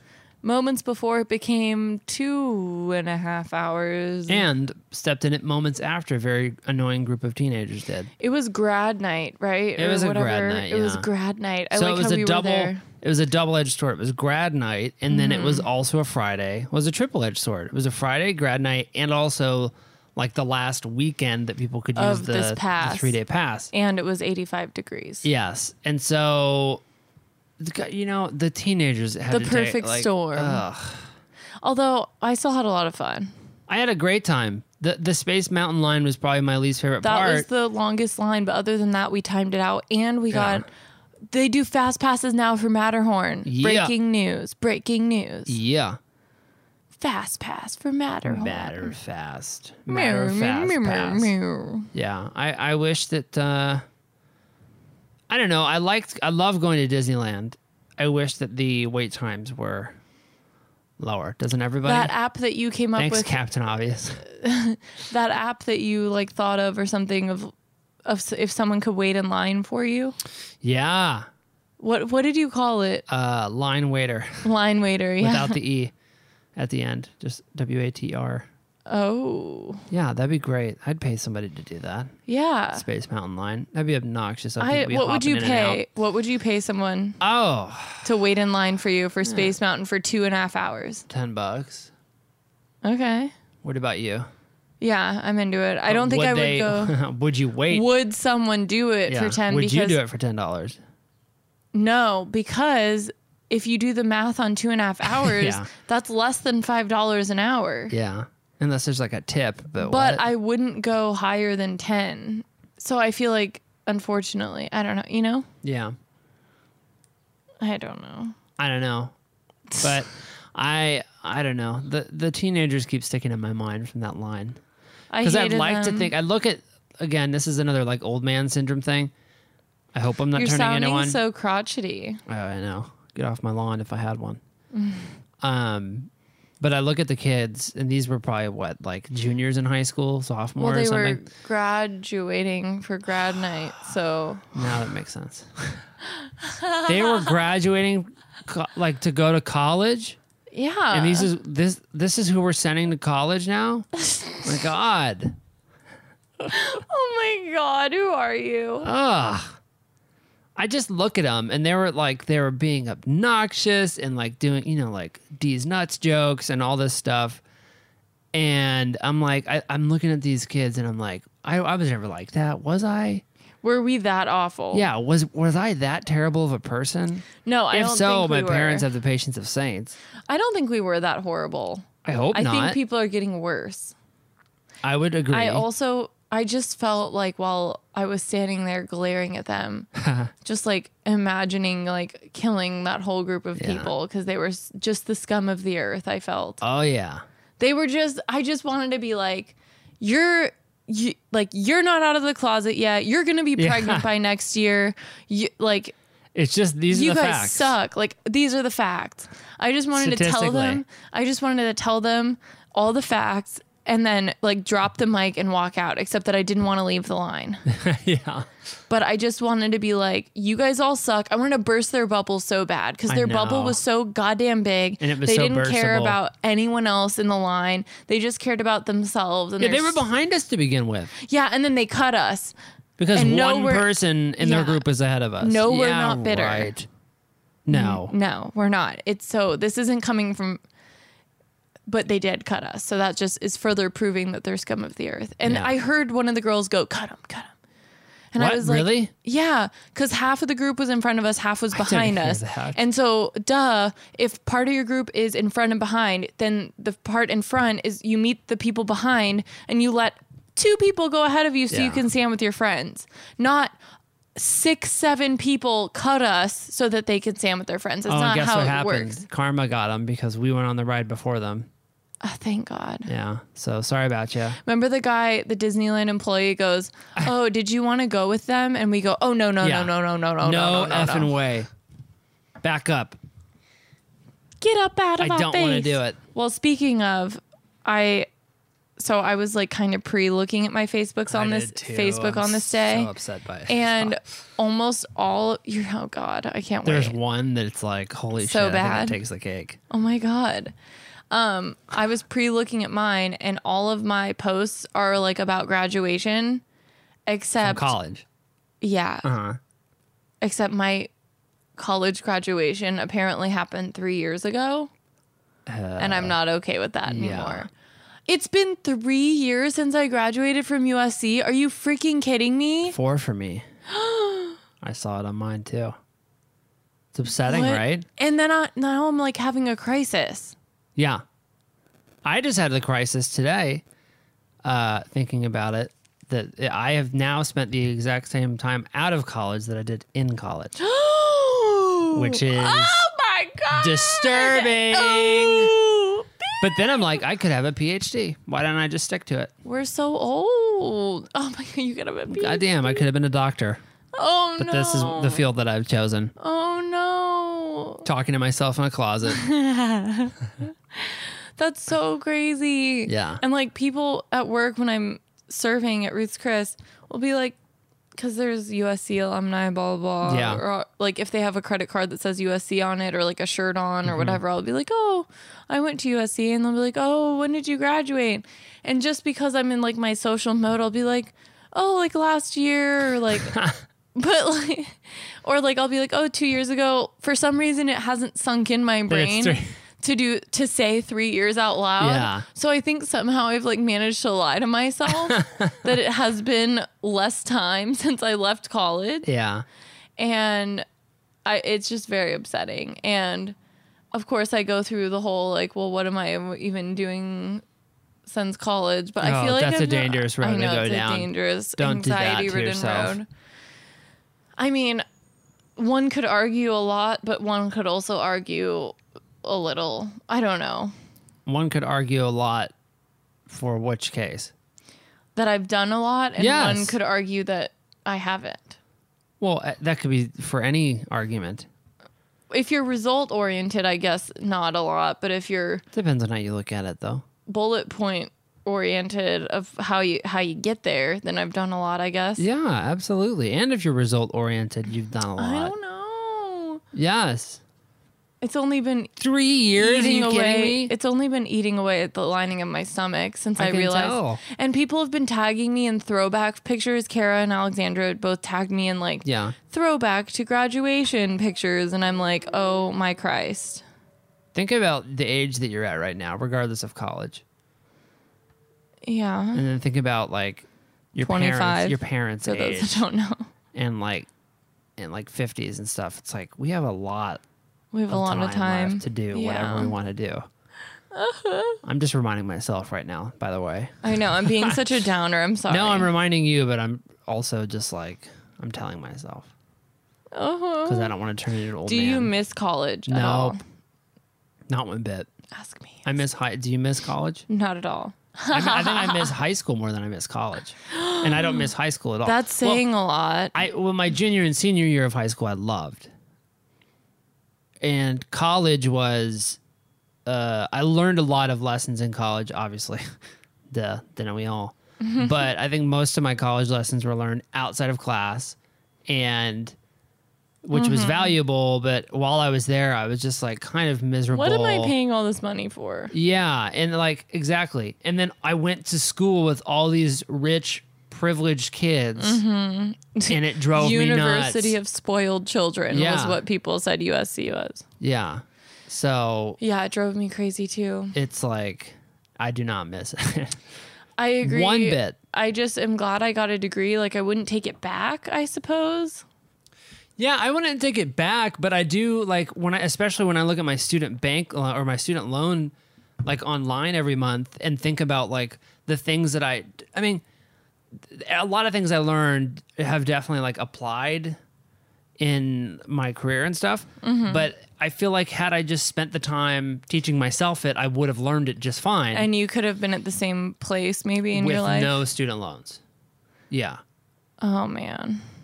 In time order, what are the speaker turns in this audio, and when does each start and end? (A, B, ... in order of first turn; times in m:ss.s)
0:00.4-0:04.4 A
0:04.3-0:08.1 B
0:08.2-0:12.8 A
0:09.8-0:11.1 B
0:11.7-0:23.7 B
0:15.1-0:15.7 A
0:22.0-0:23.2 A
0:23.7-0:25.3 A
0:25.2-0:26.8 B
0:27.6-0:31.1 B
0:29.3-0:30.6 A
0:31.6-0:33.3 A
0:33.7-0:37.5 B
0:37.0-0:40.6 A
0:40.3-0:40.6 B
0:41.3-0:45.6 A
0:43.4-0:43.9 B
0:45.5-0:46.0 B
0:47.0-0:48.9 A
0:48.2-0:51.3 B
0:49.9-0:51.9 A
0:51.9-0:53.8 B
0:55.3-1:00.0 B
1:01.0-1:02.1 B
1:01.8-1:03.3 A
1:03.0-1:04.2 B
1:04.2-1:07.5 A
1:08.0-1:10.2 A
1:10.6-1:11.3 B
1:11.8-1:13.0 A
1:13.1-1:14.5 B
1:14.4-1:15.6 A
1:15.2-1:15.9 B
1:16.6-1:18.5 B
1:18.9-1:19.8 A
1:19.9-1:22.2 B
1:22.3-1:22.8 A
1:22.7-1:25.8 B
1:24.6-1:27.2 A
1:27.2-1:28.1 B
1:28.0-1:31.0 A
1:29.2-1:29.5 B
1:31.1-1:31.9 B
1:32.8-1:33.3 A
1:33.6-1:34.3 B
1:34.8-1:37.0 A
1:35.9-1:37.9 B
1:37.7-1:40.0 A
1:39.1-1:40.8 B
1:41.7-1:47.9 A
1:45.0-1:45.7 B
1:47.9-1:50.3 B
1:49.8-1:55.5 A
1:55.6-1:55.9 B
1:57.6-1:58.4 A
1:58.6-1:59.1 B
1:59.8-2:04.6 B
2:05.1-2:06.1 A
2:05.2-2:09.1 B
2:09.9-2:11.2 B
2:10.3-2:12.2 A
2:12.3-2:14.4 B
2:14.7-2:15.1 A
2:15.4-2:21.2 B
2:20.6-2:24.5 A
2:24.5-2:25.8 B
2:26.4-2:27.3 A
2:26.8-2:30.2 B
2:30.5-2:31.3 A
2:30.9-2:33.9 B
2:34.0-2:34.5 A
2:34.4-2:35.4 B
2:36.5-2:38.9 A
2:38.8-2:39.6 B
2:40.6-2:47.4 B
2:48.3-2:53.2 B
2:53.6-2:54.9 A
2:54.7-3:00.0 B
2:57.4-2:58.9 A
3:00.3-3:03.9 A
3:02.0-3:02.8 B
3:04.8-3:05.6 B
3:05.3-3:09.9 A
3:10.0-3:10.3 B
3:10.4-3:16.6 A
3:13.6-3:13.9 B
3:16.6-3:17.2 B
3:17.6-3:25.9 A
3:23.6-3:24.1 B
3:26.3-3:27.8 B
3:26.9-3:37.6 A
3:29.9-3:30.8 B
3:37.7-3:38.5 B
3:38.9-3:50.0 A
3:43.1-3:43.8 B
3:45.0-3:46.2 B
3:49.6-3:51.1 B
3:51.2-3:52.5 A
3:53.0-3:56.9 B
3:53.1-3:54.8 A
3:55.4-3:56.7 A
3:57.6-3:58.1 B
3:57.7-4:00.6 A
4:01.9-4:07.5 A
4:05.4-4:05.7 B
4:08.3-4:23.8 A
4:08.4-4:09.1 B
4:11.7-4:12.8 B
4:21.7-4:22.0 B
4:24.4-4:29.2 A
4:28.1-4:31.7 B
4:32.2-4:33.1 A
4:33.0-4:34.6 B
4:34.6-4:41.3 A
4:39.6-4:41.7 B
4:42.6-4:43.2 B
4:44.6-4:48.3 A
4:45.2-4:46.2 B
4:49.0-4:53.1 A
4:51.3-4:54.2 B
4:53.7-4:57.2 A
4:56.8-4:59.8 B
4:58.4-4:59.2 A
4:59.9-5:00.7 A
5:01.3-5:06.6 A
5:07.3-5:07.9 A
5:07.6-5:08.2 B
5:08.8-5:09.2 A
5:09.2-5:09.6 B
5:10.4-5:11.1 A
5:11.8-5:14.9 A
5:15.6-5:16.4 B
5:16.0-5:17.7 A
5:17.0-5:17.7 B
5:18.3-5:23.0 A
5:22.9-5:23.6 B
5:23.9-5:24.6 A
5:24.8-5:26.0 B
5:27.1-5:28.0 B
5:27.4-5:30.5 A
5:31.0-5:31.2 B
5:32.2-5:33.8 B
5:34.6-5:40.8 B
5:40.8-5:47.1 A
5:42.1-5:43.0 B
5:43.7-5:45.7 B
5:46.6-5:49.5 B
5:49.6-5:53.0 A
5:52.3-5:53.8 B
5:54.1-5:55.4 A
5:54.6-5:56.3 B
5:56.4-5:58.0 A
5:58.0-5:59.4 B
5:59.3-6:07.6 A
6:03.0-6:03.4 B
6:08.2-6:23.6 A
6:10.2-6:10.6 B
6:14.0-6:14.4 B
6:23.3-6:23.8 B
6:24.1-6:39.3 A
6:29.1-6:29.7 B
6:32.0-6:32.4 B
6:35.1-6:35.8 B
6:39.2-6:39.6 B
6:40.2-6:40.8 A
6:41.4-6:43.6 A
6:44.1-6:47.6 A
6:48.2-6:53.2 A
6:49.2-6:53.2 B
6:54.6-6:55.0 A
6:55.8-7:00.9 A
7:01.4-7:02.7 B
7:03.5-7:04.5 B
7:05.4-7:08.8 A
7:06.4-7:07.0 B
7:09.4-7:11.7 B
7:12.5-7:15.8 A
7:15.9-7:17.2 B
7:17.5-7:22.4 A
7:22.4-7:25.7 B
7:25.4-7:26.8 A
7:26.9-7:27.6 B
7:28.4-7:29.1 A
7:29.2-7:30.9 B
7:29.8-7:43.8 A
7:33.6-7:34.4 B
7:39.2-7:39.5 B
7:44.5-7:47.4 B
7:49.0-7:49.6 A
7:49.5-7:53.1 B
7:51.2-7:53.5 A
7:53.7-7:54.3 B
7:55.0-7:57.4 B
7:57.9-7:59.9 A
7:58.1-8:00.5 B
8:01.1-8:01.8 A
8:01.8-8:04.8 B
8:04.0-8:06.1 A
8:05.7-8:09.5 B
8:10.3-8:11.1 A
8:10.9-8:12.3 B
8:11.9-8:13.6 A
8:13.1-8:13.6 B
8:14.7-8:15.3 B
8:15.5-8:16.2 A
8:16.0-8:17.4 B
8:17.5-8:19.3 A
8:18.5-8:22.9 B
8:20.9-8:21.7 A
8:22.2-8:23.6 A
8:23.5-8:26.1 B
8:27.8-8:29.6 B
8:30.2-8:33.0 B
8:33.7-8:39.8 B
8:35.0-8:35.5 A
8:40.6-8:45.0 B
8:40.7-8:41.4 A
8:44.3-8:46.1 A
8:46.1-8:52.4 B
8:52.2-8:57.8 A
8:53.3-8:54.8 B
8:55.9-8:56.4 B
8:58.0-8:59.6 B
8:59.6-9:01.1 A
9:01.1-9:03.6 B
9:04.2-9:09.2 A
9:04.4-9:05.2 B
9:10.2-9:20.2 B
9:21.0-9:24.4 B
9:25.2-9:32.3 B
9:27.0-9:27.5 A
9:32.1-9:35.0 A
9:34.3-9:35.8 B
9:36.5-9:36.8 B
9:37.4-9:38.2 A